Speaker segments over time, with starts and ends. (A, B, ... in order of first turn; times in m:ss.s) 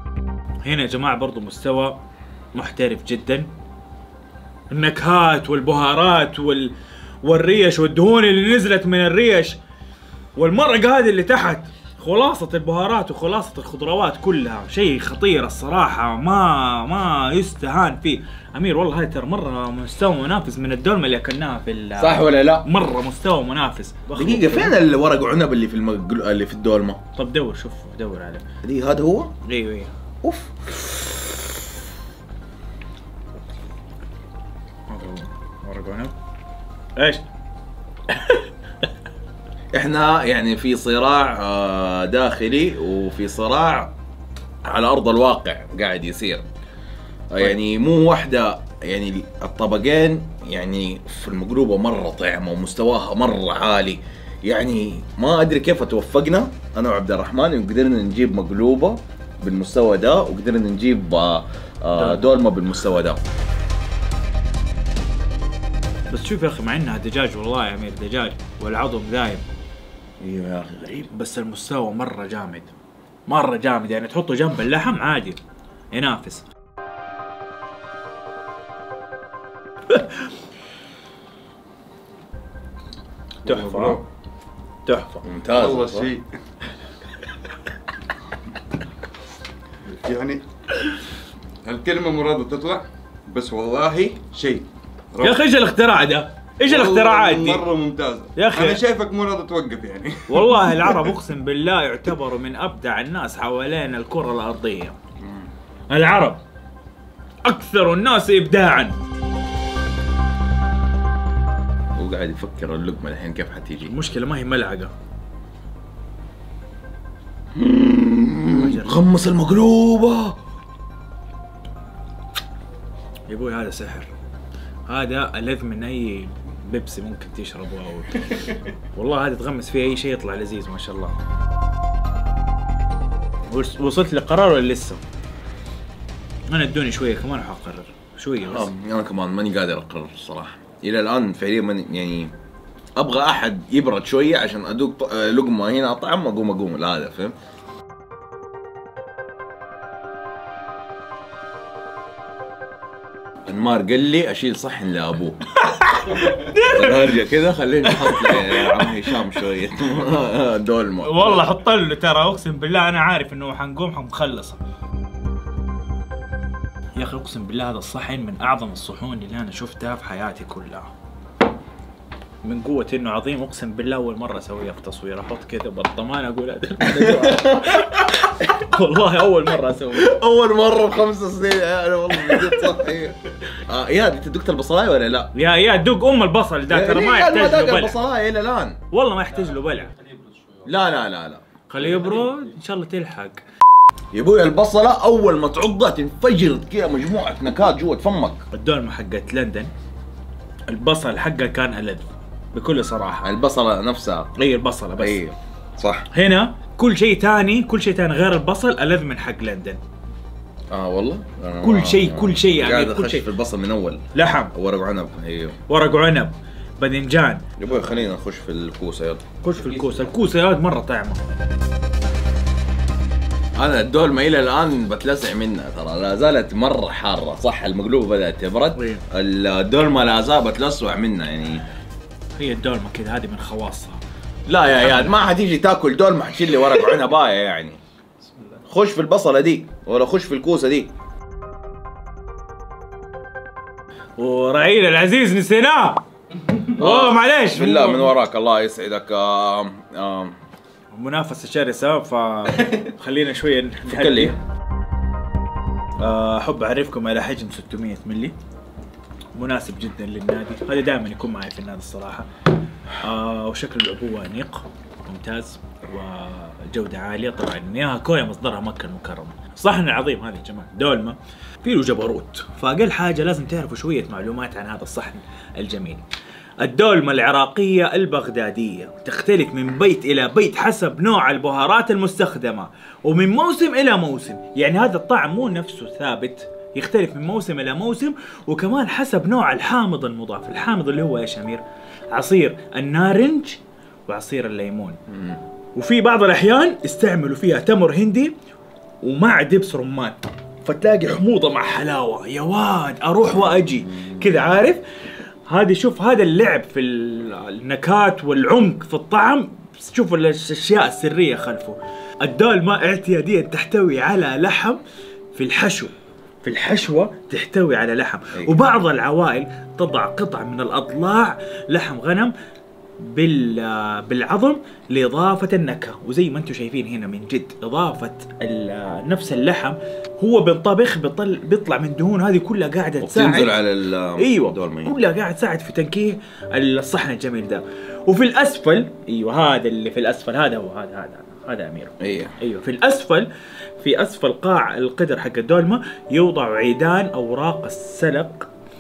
0:00.6-0:02.0 A
0:02.5-0:03.5 A
0:04.7-0:09.6 A
0:10.4-0:24.8 A
0:22.0-0:22.7 B
0:24.2-0:27.0 B
0:27.1-0:28.4 A
0:28.6-0:29.3 B
0:29.4-0:29.9 A
0:30.2-0:30.9 B
0:34.9-0:36.1 A
0:37.0-0:37.2 A
0:38.1-0:38.9 A
0:39.7-0:43.9 B
0:44.6-0:46.4 B
0:47.3-1:03.2 B
1:01.9-1:02.4 A
1:06.1-1:09.4 A
1:10.2-1:11.1 B
1:11.1-1:12.7 A
1:13.3-1:15.4 A
1:15.9-1:16.4 A
1:19.9-1:20.2 A
1:23.4-1:24.0 A
1:23.4-1:24.0 C
1:24.8-1:25.2 A
1:25.2-1:26.1 B
1:25.5-1:26.3 C
1:29.9-1:30.4 C
1:31.6-1:35.4 C
1:35.2-1:37.6 A
1:36.6-1:41.1 C
1:38.3-1:38.8 A
1:40.3-1:45.0 A
1:45.9-1:46.4 A
1:47.4-1:49.0 A
1:52.0-1:53.9 B
1:53.8-1:54.9 A
1:57.5-2:00.4 B
1:58.5-1:59.0 A
2:03.3-2:04.1 A
2:04.9-2:11.1 A
2:13.5-2:15.0 A
2:16.5-2:18.7 A
2:18.4-2:22.3 B
2:23.0-2:27.3 B
2:33.4-2:35.4 B
2:35.6-2:37.1 A
2:36.7-2:41.5 B
2:37.8-2:39.3 A
2:41.0-2:44.6 A
2:47.0-2:50.9 A
2:52.4-3:00.1 A
2:56.8-2:58.3 B
2:59.9-3:05.3 B
3:02.1-3:02.7 A
3:05.3-3:08.0 A
3:06.7-3:08.8 B
3:08.9-3:09.9 A
3:10.6-3:11.4 B
3:11.7-3:13.4 A
3:14.1-3:18.4 B
3:18.5-3:19.7 A
3:20.7-3:23.3 A
3:23.2-3:24.3 B
3:24.4-3:25.2 A
3:25.0-3:26.1 B
3:26.1-3:29.8 A
3:30.7-3:35.6 B
3:31.6-3:33.2 A
3:34.1-3:34.5 A
3:35.7-3:37.5 A
3:37.6-3:40.0 B
3:39.4-3:41.2 A
3:43.6-3:51.6 B
3:48.7-3:49.0 A
3:52.4-3:54.0 A
3:54.5-3:57.8 B
3:54.7-3:55.1 A
3:58.7-4:00.9 B
4:04.2-4:06.0 A
4:06.6-4:08.1 A
4:06.8-4:10.4 B
4:10.9-4:14.4 A
4:13.8-4:14.4 B
4:16.0-4:18.3 A
4:19.3-4:22.3 A
4:23.0-4:36.0 A
4:36.6-4:55.0 A
4:55.1-4:55.4 B
4:55.7-4:58.3 A
4:59.0-5:04.8 A
5:04.0-5:04.2 B
5:05.5-5:14.8 A
5:15.3-5:22.3 A
5:23.0-5:33.6 A
5:33.0-5:35.0 B
5:34.2-5:48.5 A
5:42.0-5:42.3 B